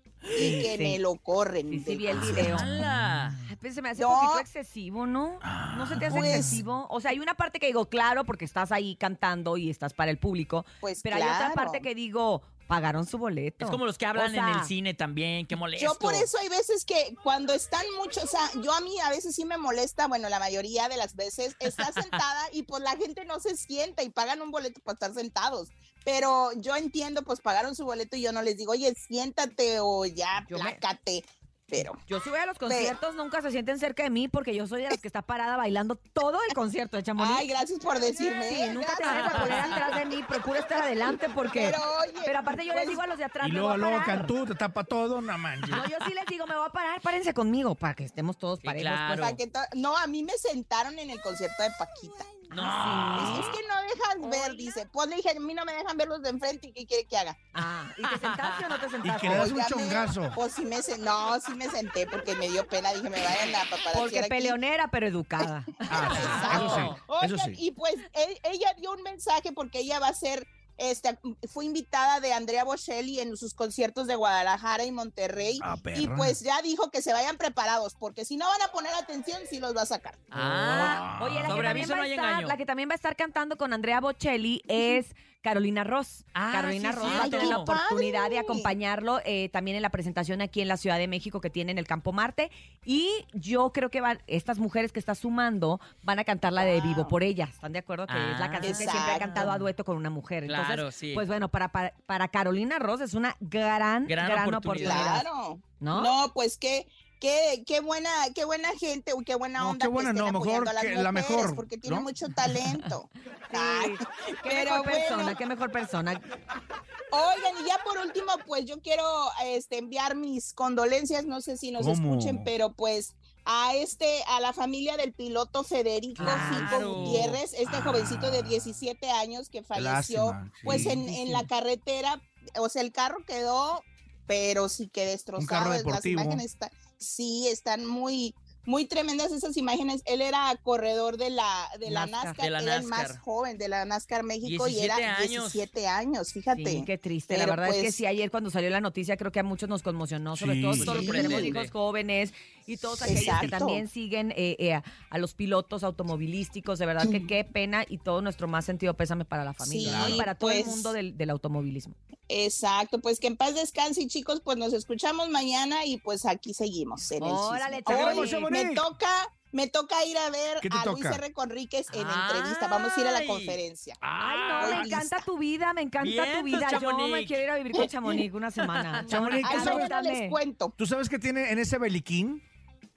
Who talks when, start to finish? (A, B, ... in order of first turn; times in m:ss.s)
0:00.3-0:00.6 A
0:00.4-0:02.5 B
0:00.4-0:01.0 C
0:01.7-0:02.7 C
0:02.1-0:03.4 A
0:02.3-0:03.4 D
0:03.5-0:14.7 C
0:04.0-0:04.4 B
0:05.4-0:06.6 A
0:06.1-0:06.6 B
0:10.8-0:11.8 B
0:13.6-0:16.3 D
0:15.8-0:32.0 B
0:21.8-0:22.2 D
0:30.4-0:30.8 C
0:32.0-0:37.4 C
0:32.7-0:32.9 B
0:37.2-0:40.0 B
0:38.2-0:44.3 C
0:39.1-0:39.8 D
0:41.5-0:43.0 B
0:43.4-0:45.9 A
0:45.7-0:49.4 C
0:48.6-0:49.4 D
0:49.2-0:52.3 B
0:52.5-0:53.5 C
0:52.5-0:53.5 D
0:53.1-0:57.4 B
0:54.2-0:54.7 C
0:57.5-0:59.5 C
0:58.1-0:58.6 D
0:59.0-1:00.4 A
0:59.3-1:04.6 B
1:03.9-1:06.6 C
1:05.9-1:07.6 A
1:06.0-1:20.2 B
1:06.0-1:07.0 D
1:15.6-1:16.4 A
1:20.3-1:22.6 D
1:20.3-1:21.6 A
1:20.7-1:45.2 C
1:26.3-1:27.7 D
1:27.0-1:28.7 B
1:36.6-1:37.1 B
1:38.1-1:39.7 D
1:38.6-1:39.5 B
1:40.4-1:41.2 D
1:44.1-1:45.1 D
1:44.8-1:55.4 B
1:45.8-1:46.1 C
1:49.6-1:52.6 A
1:53.5-1:56.2 C
1:57.1-2:28.0 B
2:01.8-2:02.5 A
2:06.2-2:07.2 C
2:06.2-2:07.4 D
2:06.2-2:08.6 A
2:09.7-2:11.1 A
2:10.6-2:11.4 C
2:15.4-2:16.4 A
2:21.8-2:22.4 C
2:22.4-2:23.2 D
2:24.4-2:25.6 D
2:26.5-2:42.0 C
2:30.3-2:31.4 A
2:30.8-2:31.7 D
2:31.0-2:31.5 B
2:33.0-2:33.8 B
2:33.0-2:33.4 A
2:39.6-2:40.9 B
2:39.8-2:40.3 A
2:42.3-2:54.0 B
2:47.2-2:48.5 C
2:47.8-2:48.8 A
2:50.6-2:51.2 A
2:51.9-2:54.7 D
2:54.2-3:00.4 C
2:54.6-2:54.9 A
2:54.6-2:55.2 B
2:56.0-2:57.4 D
2:57.8-2:58.2 B
2:58.7-2:59.1 D
2:59.0-2:59.9 A
2:59.4-3:00.7 B
3:00.8-3:02.4 A